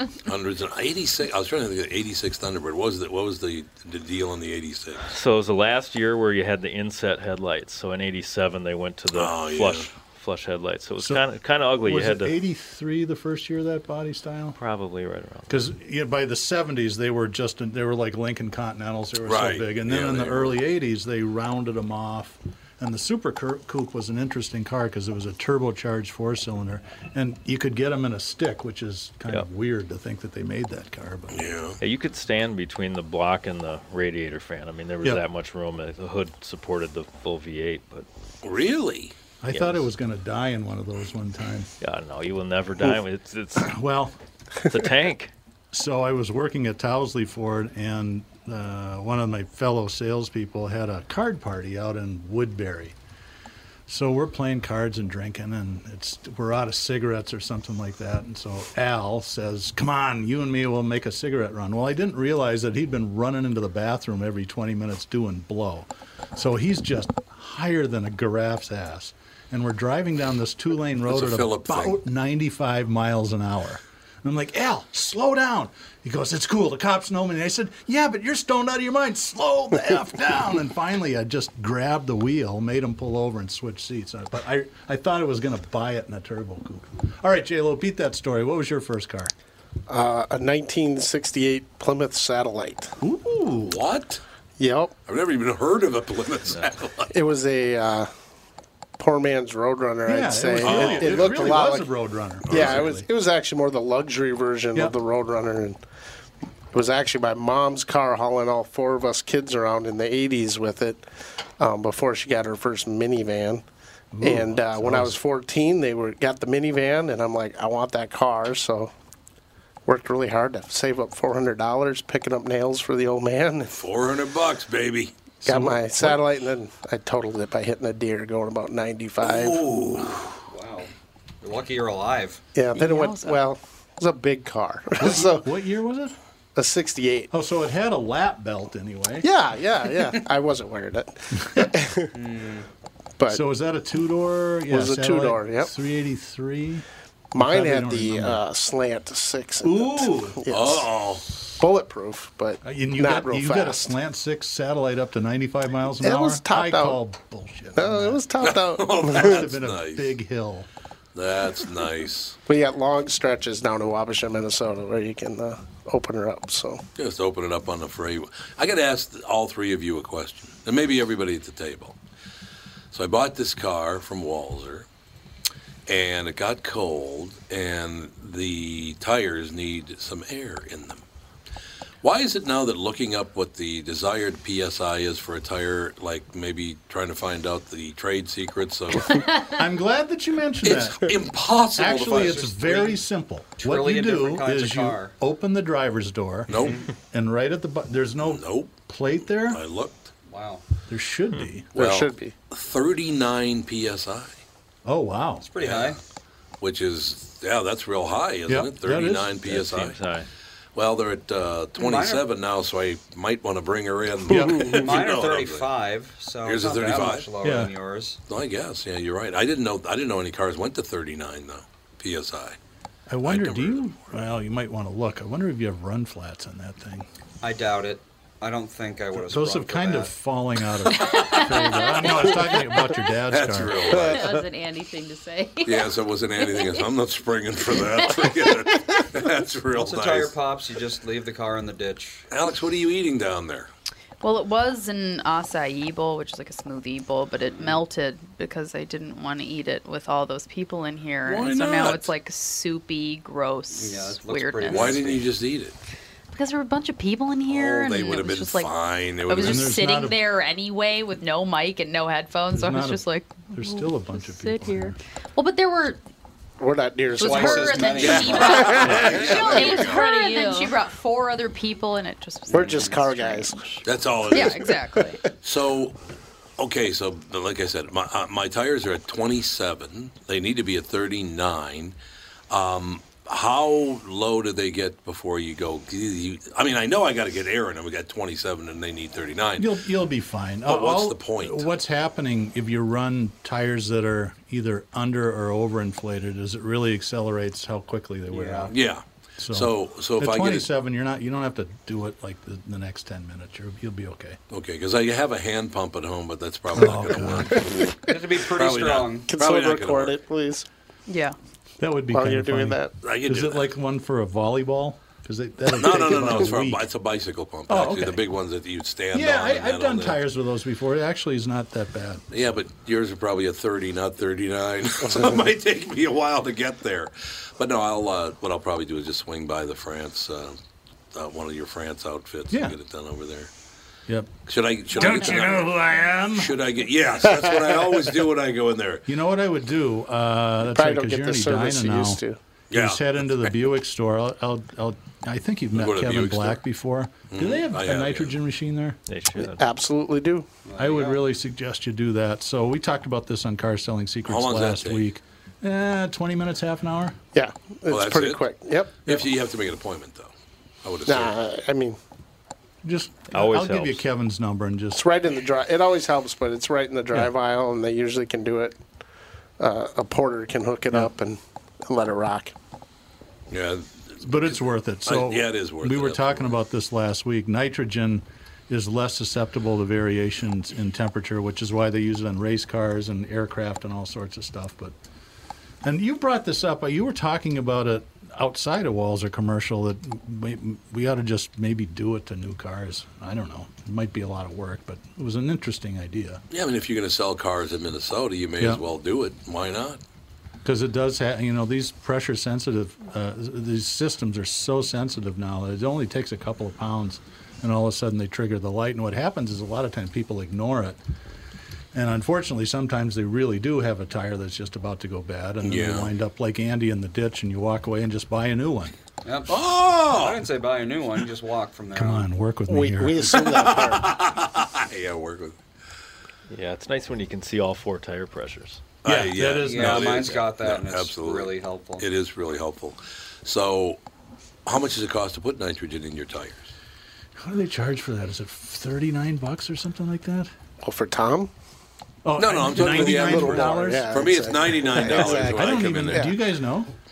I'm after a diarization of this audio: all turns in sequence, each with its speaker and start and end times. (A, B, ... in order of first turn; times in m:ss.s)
0:00.2-0:05.1 A
0:05.0-0:12.3 B
0:09.1-0:09.9 A
0:11.0-0:11.2 C
0:11.8-0:14.6 C
0:14.6-0:15.7 B
0:15.5-0:31.4 C
0:19.2-0:20.6 A
0:31.3-0:31.8 A
0:31.8-0:38.1 B
0:38.4-0:39.1 A
0:39.4-0:41.7 C
0:39.5-0:39.9 B
0:41.8-0:43.8 B
0:43.6-0:44.2 C
0:44.6-0:45.3 B
0:45.7-0:53.0 C
0:53.9-1:29.3 C
1:11.1-1:12.0 A
1:29.9-1:32.9 D
1:33.0-1:33.8 C
1:33.7-1:34.2 A
1:34.6-1:34.9 D
1:35.1-1:37.1 A
1:37.1-1:38.1 D
1:39.0-1:41.9 D
1:40.0-1:43.0 C
1:40.6-1:41.4 A
1:42.5-1:45.8 D
1:42.5-1:42.9 A
1:46.7-1:51.0 D
1:51.6-1:53.6 D
1:54.1-1:55.2 C
1:54.2-1:58.9 D
1:59.8-2:03.8 D
2:03.7-2:05.1 A
2:05.4-2:06.2 C
2:05.5-2:09.6 D
2:09.2-2:10.2 A
2:10.5-2:10.9 E
2:11.4-2:12.4 E
2:12.5-2:15.5 D
2:12.7-2:13.4 F
2:15.0-2:16.2 C
2:16.6-2:17.3 D
2:17.3-2:19.2 C
2:19.2-2:22.1 D
2:22.1-2:22.7 E
2:23.3-2:26.8 C
2:24.7-2:25.7 D
2:27.3-2:30.9 D
2:27.4-2:28.4 C
2:29.6-2:30.4 C
2:30.5-2:31.3 A
2:31.6-2:34.0 D
2:32.6-2:38.2 C
2:36.0-2:37.0 D
2:37.8-2:39.4 D
2:38.4-2:40.2 A
2:39.2-2:40.7 C
2:41.2-2:42.4 A
2:42.5-2:46.8 D
2:47.0-2:52.0 A
2:52.9-2:54.9 A
2:55.9-3:01.0 A
3:02.0-3:09.2 A
3:09.4-3:11.1 C
3:10.6-3:12.8 A
3:11.8-3:16.5 C
3:12.0-3:13.0 E
3:13.6-3:15.2 E
3:16.5-3:16.9 A
3:16.5-3:16.9 E
3:17.0-3:19.6 C
3:18.2-3:18.8 A
3:19.5-3:20.1 A
3:20.2-3:20.7 E
3:20.9-3:21.7 C
3:21.7-3:24.4 A
3:21.8-3:22.3 D
3:24.8-3:25.5 C
3:25.4-3:26.0 E
3:25.6-3:26.0 A
3:26.6-3:30.0 A
3:28.5-3:29.4 C
3:29.5-3:30.3 B
3:30.7-3:35.7 A
3:31.8-3:32.2 E
3:34.3-3:34.9 C
3:34.6-3:38.2 E
3:36.4-3:37.3 A
3:37.4-3:37.7 C
3:38.3-3:42.6 A
3:43.1-3:47.1 C
3:43.2-3:44.3 A
3:47.4-3:50.1 E
3:49.2-3:54.0 C
3:51.1-3:52.1 G
3:53.3-3:54.3 A
3:53.9-3:56.8 G
3:55.6-4:00.4 A
3:57.9-3:58.5 G
3:59.7-4:02.2 E
4:02.3-4:03.7 A
4:04.2-4:15.0 F
4:11.2-4:12.1 A
4:13.7-4:15.3 E
4:14.7-4:15.7 A
4:16.3-4:26.0 F
4:17.5-4:19.8 A
4:19.4-4:20.2 C
4:22.5-4:25.0 C
4:26.6-4:29.7 D
4:27.2-4:35.2 F
4:27.2-4:29.2 E
4:28.0-4:30.1 A
4:29.0-4:30.8 G
4:32.5-4:33.0 E
4:32.5-4:33.6 D
4:33.8-4:34.8 A
4:35.4-4:36.0 A
4:36.6-4:42.0 A
4:42.5-4:49.7 A
4:49.6-4:58.7 C
4:50.6-4:51.7 A
4:58.3-4:58.7 E
4:58.7-5:00.7 A
4:59.4-5:04.4 C
5:04.5-5:10.2 A
5:06.7-5:07.6 C
5:08.0-5:09.3 E
5:09.3-5:10.6 D
5:11.1-5:11.3 F
5:11.8-5:16.9 C
5:12.1-5:12.9 D
5:13.0-5:13.7 A
5:15.7-5:20.2 A
5:17.7-5:18.2 C
5:19.1-5:22.2 C
5:22.3-5:30.6 A
5:31.1-5:33.5 A
5:32.5-5:32.8 C
5:34.1-5:34.3 C
5:34.4-5:35.7 A
5:34.9-5:36.5 C
5:36.3-5:39.0 A
5:39.1-5:42.2 C
5:40.6-5:42.4 D
5:42.7-5:43.5 A
5:42.7-5:49.0 C
5:45.8-5:46.6 A
5:47.3-5:48.3 A
5:49.1-5:49.6 B
5:49.4-5:50.5 D
5:50.6-5:51.3 E
5:50.8-5:57.2 C
5:54.3-5:55.0 A
5:57.3-5:59.0 D
5:57.9-5:58.4 A
5:59.0-6:00.3 A
6:00.8-6:01.4 A
6:01.0-6:02.0 D
6:02.8-6:05.0 C
6:03.3-6:04.0 B
6:05.0-6:08.8 D
6:09.6-6:12.5 D
6:13.5-6:16.5 A
6:14.2-6:24.9 C
6:25.8-6:36.4 C
6:36.5-6:40.0 A
6:40.6-6:51.0 C
6:51.9-6:58.9 C
6:55.6-6:56.1 A
6:59.2-7:02.3 E
6:59.5-7:00.4 A
7:01.9-7:03.6 C
7:02.7-7:04.2 D
7:03.6-7:05.6 A
7:06.5-7:08.8 B
7:09.0-7:14.0 A
7:09.0-7:10.3 C
7:09.6-7:12.0 E
7:14.6-7:16.7 A
7:17.4-7:20.5 C
7:20.8-7:21.5 D
7:22.2-7:24.3 C
7:22.4-7:26.3 A
7:22.8-7:26.4 D
7:24.9-7:26.9 C